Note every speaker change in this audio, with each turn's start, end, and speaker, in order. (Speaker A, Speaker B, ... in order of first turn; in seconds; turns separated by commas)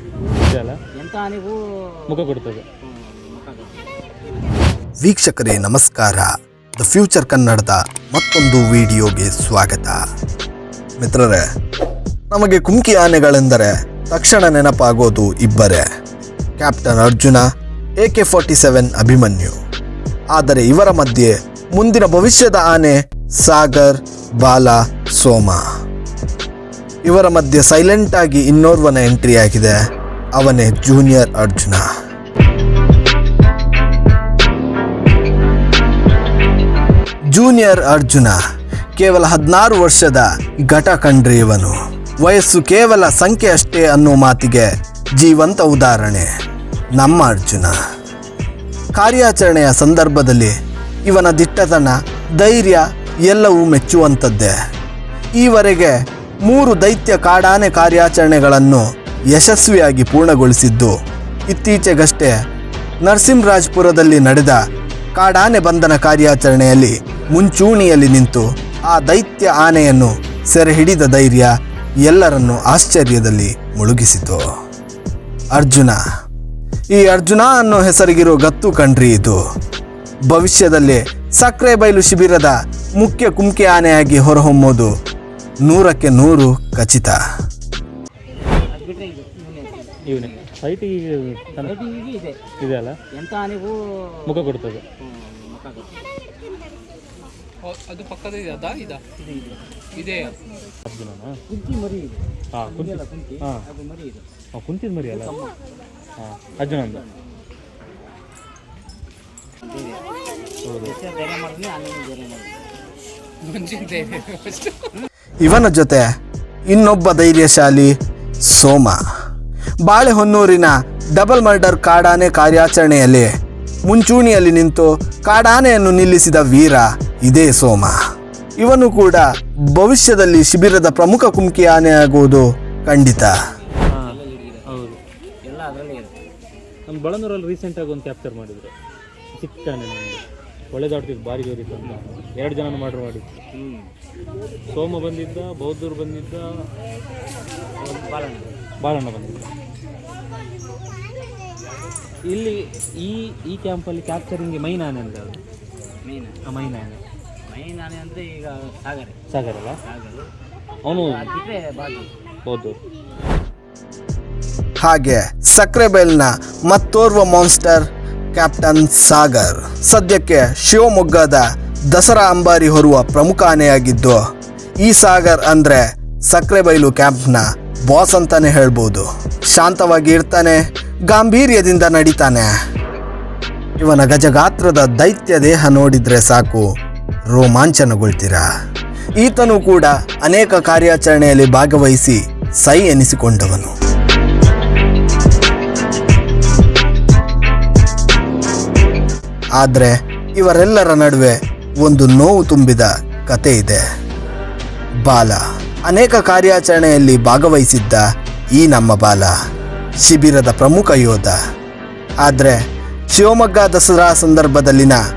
Speaker A: 0.3-0.8, Speaker B: 0.9-2.1, Speaker A: 2.1-2.6, Speaker B: 2.8-3.9, Speaker C: 5.0-10.0, Speaker C: 11.0-11.4, Speaker C: 12.3-15.8, Speaker C: 16.6-17.4, Speaker C: 18.0-19.6, Speaker C: 20.3-25.6, Speaker C: 27.0-29.8, Speaker C: 30.3-31.8, Speaker C: 37.3-38.4, Speaker C: 39.0-46.3, Speaker C: 46.9-47.8, Speaker C: 48.9-54.5, Speaker C: 55.4-60.9, Speaker C: 61.5-62.3, Speaker C: 63.0-64.6, Speaker C: 65.2-71.5, Speaker C: 72.0-74.4, Speaker C: 75.5-76.0, Speaker C: 76.9-79.4, Speaker C: 80.3-84.9, Speaker C: 85.6-87.2, Speaker B: 88.7-90.5, Speaker A: 90.0-91.8, Speaker B: 91.5-92.5, Speaker A: 92.6-93.0, Speaker B: 93.1-94.3, Speaker A: 94.2-94.8, Speaker B: 95.0-96.0, Speaker D: 97.6-99.0, Speaker B: 99.1-100.2, Speaker D: 100.0-100.3, Speaker A: 100.9-101.3, Speaker B: 101.5-104.3, Speaker A: 102.5-103.6, Speaker A: 104.5-105.3, Speaker B: 105.0-105.6, Speaker A: 106.2-107.0, Speaker B: 106.5-107.2, Speaker B: 109.6-110.0, Speaker A: 110.6-110.9, Speaker B: 110.8-112.6, Speaker D: 113.4-114.8, Speaker C: 115.4-116.1, Speaker C: 116.7-119.0, Speaker C: 119.8-123.3, Speaker C: 123.8-128.0, Speaker C: 128.6-133.4, Speaker B: 133.5-134.8, Speaker A: 133.9-135.0, Speaker B: 135.4-136.2, Speaker A: 136.9-138.7, Speaker A: 139.3-143.4, Speaker B: 143.5-143.9, Speaker A: 144.7-146.4, Speaker B: 147.8-148.5, Speaker A: 148.8-149.5, Speaker A: 152.2-155.4, Speaker B: 156.0-156.4, Speaker A: 156.4-157.0, Speaker B: 157.5-159.2, Speaker A: 159.3-159.8, Speaker B: 159.8-160.3, Speaker A: 160.8-161.3, Speaker B: 160.9-162.1, Speaker A: 162.4-162.8, Speaker C: 164.8-174.2, Speaker C: 174.8-182.5, Speaker C: 183.8-186.7, Speaker C: 187.3-188.5, Speaker C: 189.2-193.7, Speaker C: 199.6-203.8, Speaker C: 205.0-209.3, Speaker C: 210.0-211.4, Speaker C: 212.2-215.0